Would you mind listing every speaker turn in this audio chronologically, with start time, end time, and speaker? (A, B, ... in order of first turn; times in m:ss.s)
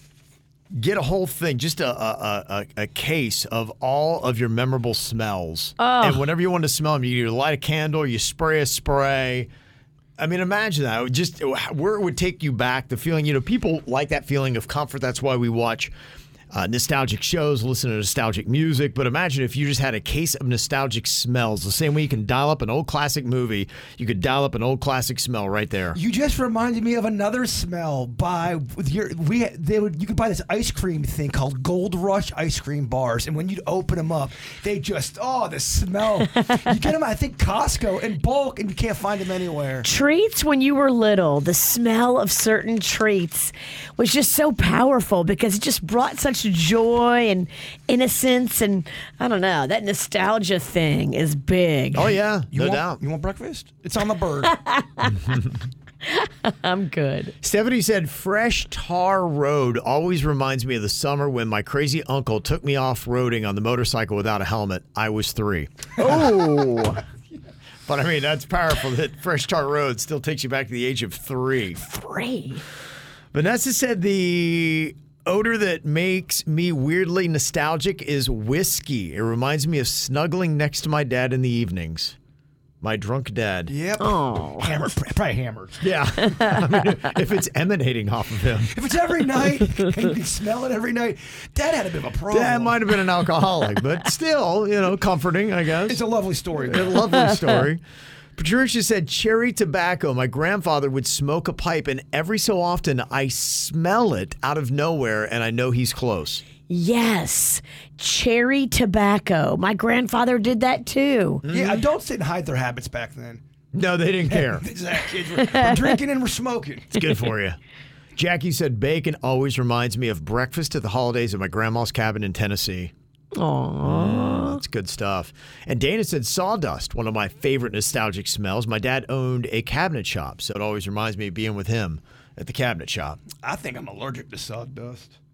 0:00.7-0:09.5 A
0:05.8-0:06.2 B
0:10.2-0:15.9 A
0:16.5-0:26.0 A
0:25.9-0:39.9 C
0:39.8-0:52.1 B
0:51.9-0:53.0 A
0:52.5-0:54.5 C
0:54.5-0:55.2 B
0:56.1-0:57.3 B
0:57.4-1:06.8 A
1:06.0-1:07.0 B
1:07.9-1:11.8 A
1:11.8-1:12.6 B
1:13.3-1:22.2 A
1:22.8-1:23.7 A
1:23.7-1:25.9 C
1:24.0-1:24.8 B
1:25.8-1:28.7 A
1:26.4-1:26.6 B
1:28.7-1:32.8 C
1:32.3-1:36.0 A
1:35.9-1:37.0 C
1:36.6-1:37.8 A
1:38.4-1:46.4 A
1:46.7-1:51.4 B
1:51.4-1:51.8 A
1:51.5-1:53.4 C
1:53.7-1:54.7 A
1:54.3-1:56.9 C
1:56.9-1:57.6 A
1:58.2-2:02.9 A
2:03.3-2:04.6 B
2:03.8-2:13.2 A
2:13.4-2:15.2 C